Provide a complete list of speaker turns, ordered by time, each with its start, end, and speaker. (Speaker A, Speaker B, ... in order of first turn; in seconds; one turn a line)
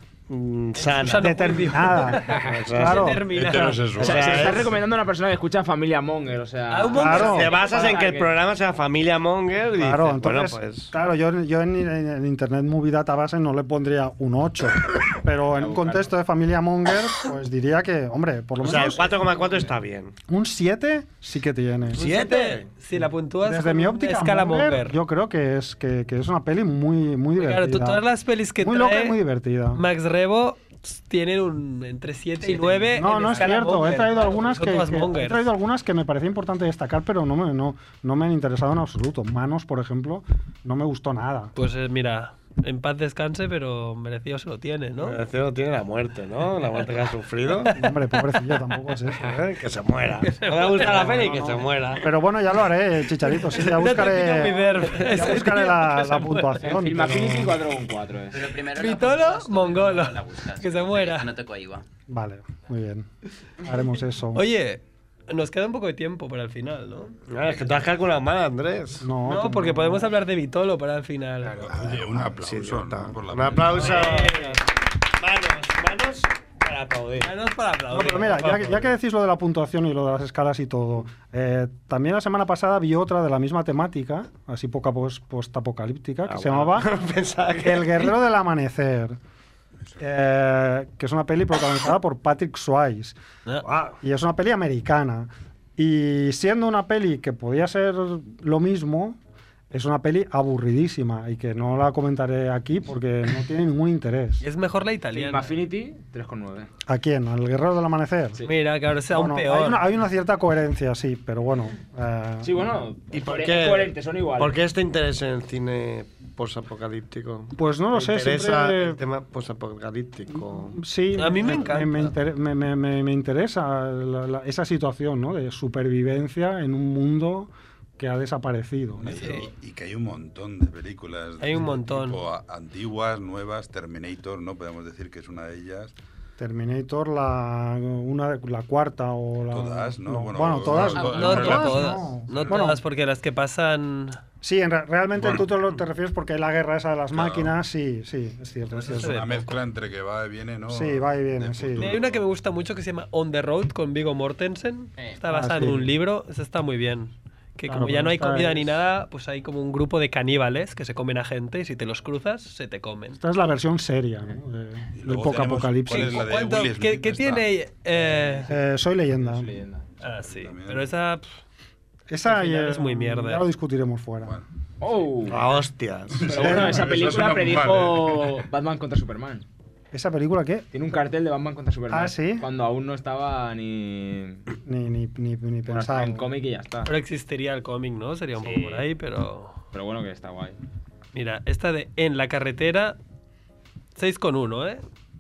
Speaker A: 0.3-1.7
Speaker B: 0.8-4.7
Speaker C: 1.1-3.3
Speaker A: 2.4-3.2
Speaker D: 3.3-4.4
Speaker A: 4.0-4.7
Speaker E: 4.0-8.3
Speaker B: 6.7-7.7
Speaker C: 7.0-7.5
Speaker A: 7.2-10.9
Speaker C: 9.8-19.3
Speaker E: 15.5-16.1
Speaker A: 18.6-20.1
Speaker C: 20.3-22.0
Speaker A: 21.9-22.7
Speaker B: 21.9-25.0
Speaker C: 23.4-28.1
Speaker B: 27.4-29.2
Speaker C: 28.6-29.8
Speaker B: 29.8-35.4
Speaker C: 32.9-41.5
Speaker B: 41.5-45.2
Speaker A: 45.0-47.7
Speaker C: 47.7-49.4
Speaker A: 49.2-52.0
Speaker B: 50.2-51.8
Speaker C: 52.0-57.6
Speaker B: 53.5-56.7
Speaker E: 56.6-58.5
Speaker F: 58.3-61.9
Speaker B: 58.7-61.3
Speaker C: 62.1-63.1
Speaker C: 63.6-64.4
Speaker B: 64.3-67.2
Speaker A: 67.3-69.1
Speaker C: 69.0-70.1
Speaker B: 69.2-71.7
Speaker D: 71.5-74.2
Speaker A: 71.7-74.6
Speaker B: 73.7-74.6
Speaker A: 75.2-77.3
Speaker B: 77.2-78.8
Speaker C: 77.9-86.9
Speaker A: 86.3-88.2
Speaker C: 87.6-89.2
Speaker C: 90.0-93.2
Speaker C: 93.7-99.2
Speaker C: 99.7-104.4
Speaker B: 104.4-105.5
Speaker E: 105.1-106.7
Speaker C: 106.9-108.4
Speaker B: 108.4-109.8
Speaker C: 109.1-112.6
Speaker E: 112.4-114.6
Speaker A: 113.1-120.8
Speaker C: 117.6-119.0
Speaker C: 120.3-129.3
Speaker B: 121.1-122.1
Speaker D: 129.0-135.9
Speaker B: 129.1-129.5
Speaker B: 131.4-132.2
Speaker C: 136.4-142.8
Speaker D: 139.5-142.6
Speaker B: 140.9-144.2
Speaker C: 144.4-149.2
Speaker D: 145.2-145.5
Speaker D: 147.1-147.6
Speaker B: 148.7-149.6
Speaker D: 148.9-152.2
Speaker C: 150.7-152.0
Speaker B: 151.8-163.2
Speaker C: 155.3-155.9
Speaker C: 157.7-158.7
Speaker C: 163.2-166.3
Speaker D: 165.0-167.5
Speaker B: 165.9-168.5
Speaker C: 168.5-169.5
Speaker E: 169.2-169.9
Speaker B: 170.0-171.3
Speaker D: 170.1-170.9
Speaker C: 172.1-174.4
Speaker B: 172.3-173.4
Speaker E: 174.8-175.5
Speaker A: 175.3-176.6
Speaker D: 176.2-178.4
Speaker E: 176.3-179.5
Speaker C: 179.9-180.7
Speaker E: 180.7-184.4
Speaker C: 181.9-182.4
Speaker C: 184.7-186.2
Speaker E: 185.7-186.9
Speaker B: 186.8-189.6
Speaker E: 188.4-188.8
Speaker E: 189.7-190.6
Speaker B: 191.1-193.0
Speaker B: 194.0-194.8